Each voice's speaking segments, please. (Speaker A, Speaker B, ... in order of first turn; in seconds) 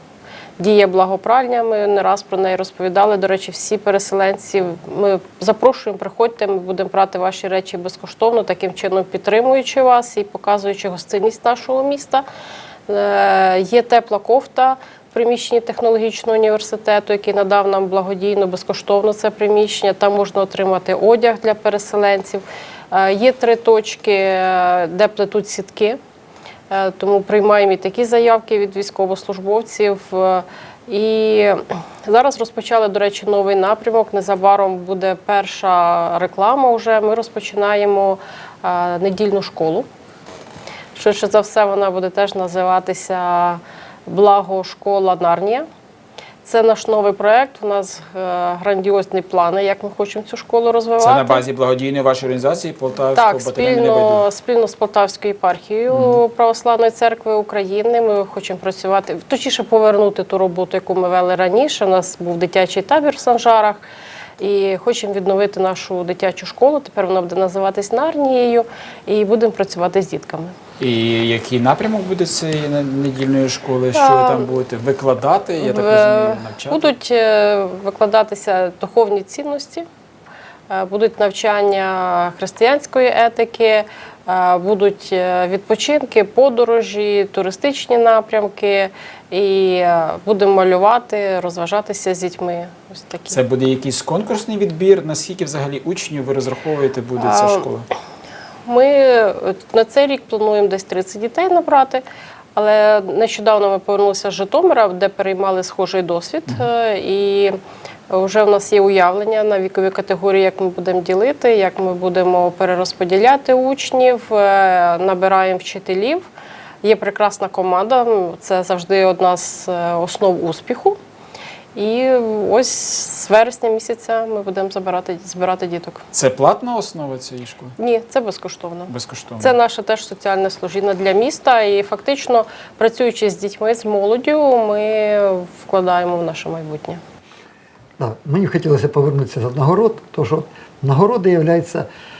Speaker A: 0.6-12.2, 12.9-26.0, 26.7-39.9, 40.9-45.6, 46.4-51.4, 53.1-63.8, 64.4-70.5, 73.9-74.5, 75.6-79.8, 80.7-93.4, 97.2-97.7, 98.6-102.0, 102.5-107.5, 108.1-116.3, 116.8-121.0, 121.7-126.0, 127.8-137.0
Speaker B: 51.0-54.2, 55.9-56.2, 70.8-76.9, 93.3-97.8, 126.1-127.7, 128.9-129.6
Speaker C: 138.0-141.9